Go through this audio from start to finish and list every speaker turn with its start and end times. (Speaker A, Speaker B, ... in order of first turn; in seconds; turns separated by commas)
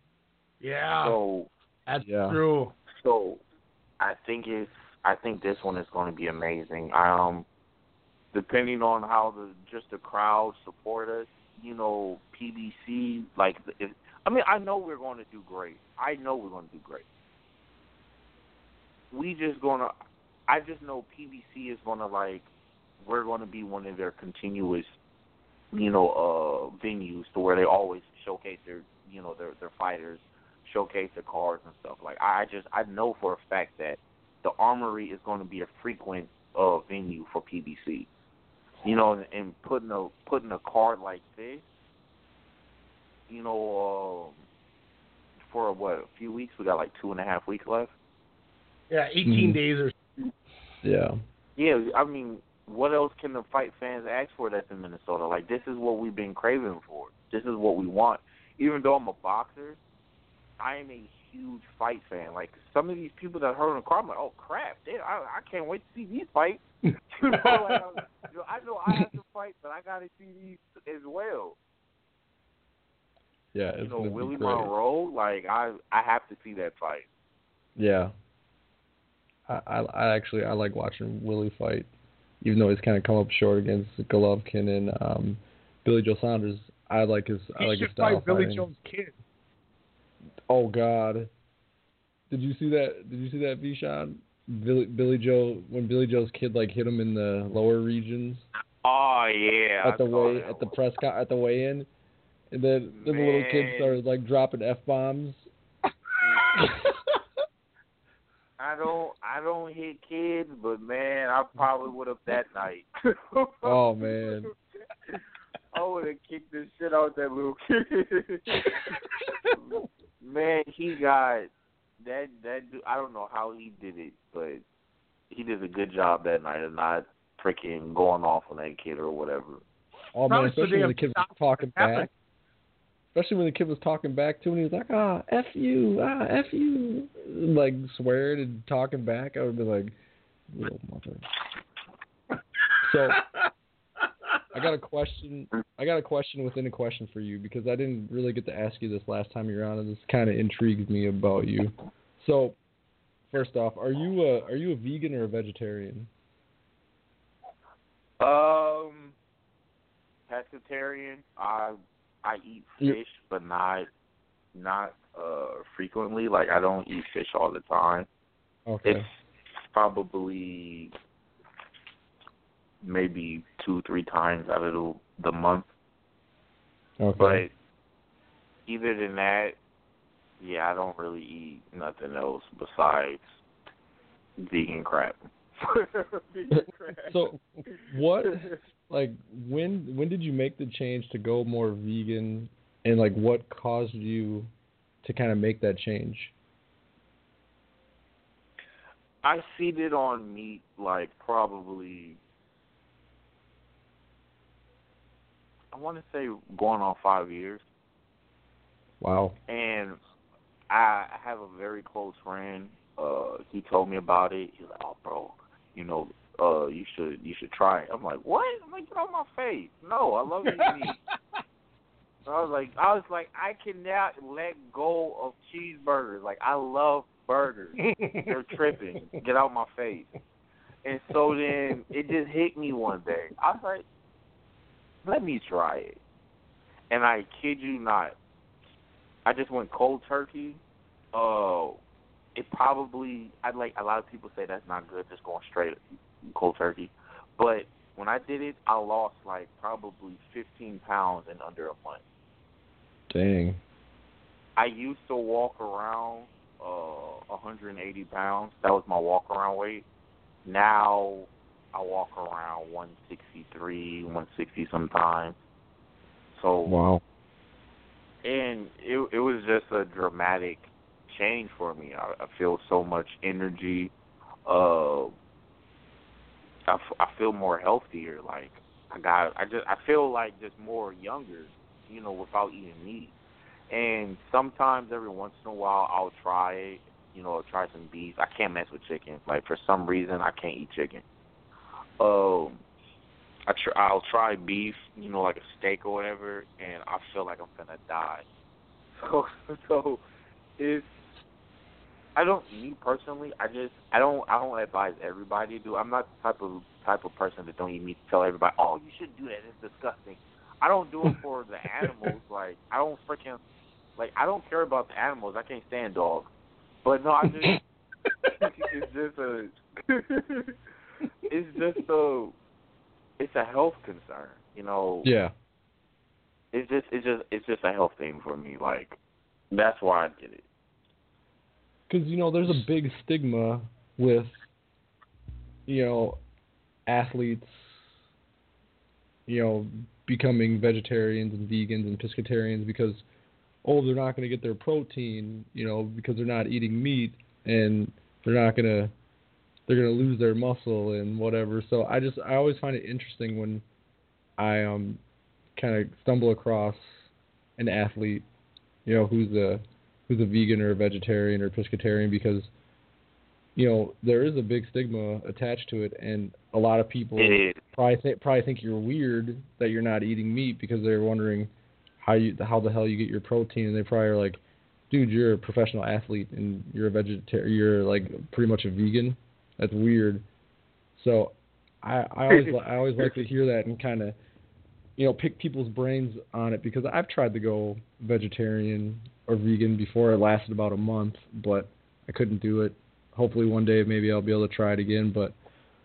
Speaker A: 0.6-1.2, Speaker B: 1.0-1.5, Speaker A: 1.9-2.7, Speaker C: 2.0-2.4, Speaker B: 2.9-3.4, Speaker B: 4.0-7.5, Speaker B: 8.3-17.1, Speaker B: 19.1-19.9, Speaker B: 20.5-22.5, Speaker B: 23.0-25.0, Speaker B: 25.7-38.1, Speaker B: 38.8-41.7, Speaker B: 43.3-44.4, Speaker B: 45.5-47.9, Speaker A: 48.9-50.0, Speaker C: 49.2-49.6, Speaker C: 50.8-51.2, Speaker B: 51.6-59.8, Speaker B: 60.6-66.6, Speaker B: 67.1-71.6, Speaker A: 67.3-67.6, Speaker C: 73.5-74.7, Speaker B: 73.8-77.1, Speaker C: 77.8-78.1, Speaker C: 79.5-81.9, Speaker C: 82.4-88.7, Speaker A: 87.6-89.2, Speaker C: 90.5-91.3, Speaker C: 92.3-98.5, Speaker B: 98.8-100.7, Speaker C: 99.8-101.9, Speaker C: 102.5-105.5, Speaker B: 102.9-104.0, Speaker B: 108.6-114.5, Speaker C: 113.6-114.5, Speaker B: 115.7-119.0, Speaker B: 119.6-121.5, Speaker B: 122.0-124.6, Speaker B: 125.3-129.6, Speaker C: 130.1-132.1, Speaker A: 130.3-132.1, Speaker C: 133.1-140.0, Speaker C: 140.5-141.3, Speaker C: 142.8-143.2, Speaker C: 144.5-152.6, Speaker C: 153.3-156.1, Speaker B: 158.2-159.2, Speaker B: 160.3-163.9, Speaker B: 164.6-168.1, Speaker C: 168.7-169.1, Speaker B: 168.8-169.1, Speaker B: 169.7-170.9, Speaker B: 172.8-175.7, Speaker C: 177.0-177.4, Speaker B: 177.2-177.5, Speaker B: 178.7-179.6, Speaker B: 180.4-183.2, Speaker B: 184.4-187.2, Speaker C: 187.1-194.5, Speaker B: 188.2-188.6, Speaker C: 195.0-196.3, Speaker B: 199.2-202.2, Speaker B: 205.7-207.6, Speaker C: 209.0-209.3, Speaker B: 209.5-210.0, Speaker B: 210.7-221.0, Speaker B: 222.3-230.1, Speaker A: 227.8-228.3, Speaker B: 230.8-233.8, Speaker B: 235.0-236.0, Speaker B: 236.9-238.2, Speaker B: 239.2-240.6, Speaker B: 241.1-241.8, Speaker B: 242.3-252.0, Speaker C: 253.1-253.6, Speaker B: 254.6-259.9, Speaker B: 260.4-265.4, Speaker B: 266.3-266.8, Speaker C: 266.6-267.0, Speaker B: 268.2-273.9, Speaker B: 274.5-275.1, Speaker B: 276.7-283.1, Speaker B: 283.7-291.0, Speaker B: 292.0-292.6, Speaker B: 293.5-298.2, Speaker B: 299.0-300.0, Speaker B: 300.6-301.1, Speaker B: 302.1-313.4, Speaker B: 314.0-316.3, Speaker B: 316.8-317.6, Speaker B: 318.4-320.6, Speaker B: 321.3-322.4, Speaker B: 323.2-325.1, Speaker C: 325.1-325.3, Speaker B: 326.5-329.0, Speaker B: 329.5-330.4, Speaker C: 331.9-334.4, Speaker C: 335.7-336.2, Speaker C: 336.9-337.8, Speaker C: 339.3-343.0, Speaker C: 343.6-348.9, Speaker C: 349.7-353.6, Speaker C: 354.4-355.0, Speaker C: 355.6-358.2, Speaker C: 358.9-362.5, Speaker C: 363.6-380.2, Speaker B: 367.2-367.6, Speaker C: 381.0-384.1, Speaker C: 385.0-395.4